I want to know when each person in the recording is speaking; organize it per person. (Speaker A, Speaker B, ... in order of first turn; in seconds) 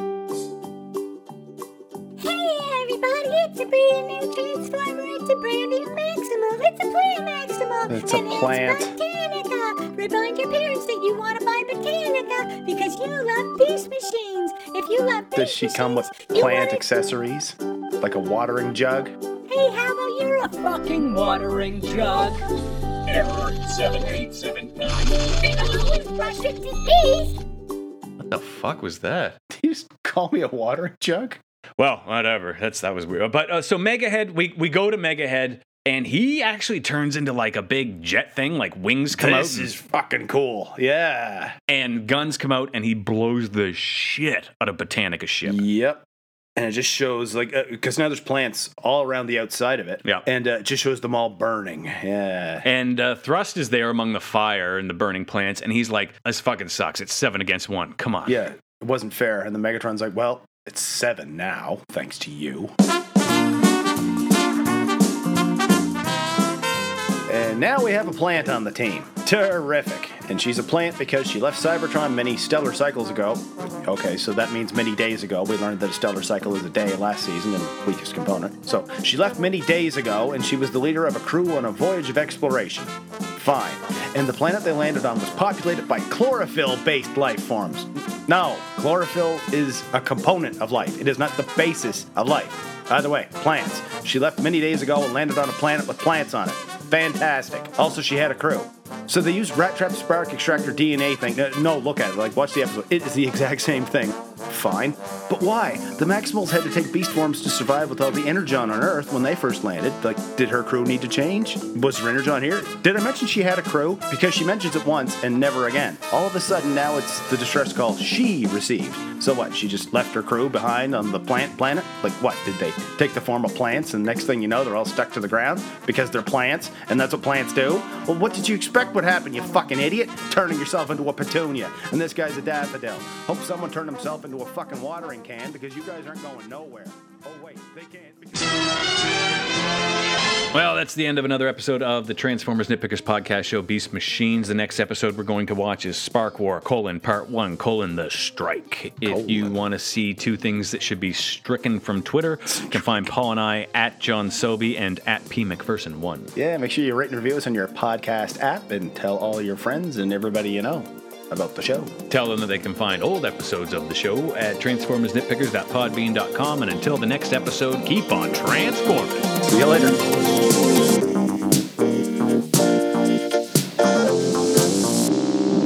Speaker A: 2.2-16.9, 19.5-22.4, 25.1-27.4
Speaker B: 7.9-9.0, 15.3-19.1, 29.5-31.4, 39.1-41.5, 45.4-46.0, 46.5-52.6, 58.2-62.7, 67.3-138.6, 149.0-149.6, 152.5-153.1, 156.3-161.9, 169.4-170.0
Speaker C: 21.1-22.4, 23.1-25.1, 28.2-29.4, 31.8-39.7, 41.7-45.6, 52.6-58.4, 140.5-156.3, 162.1-169.2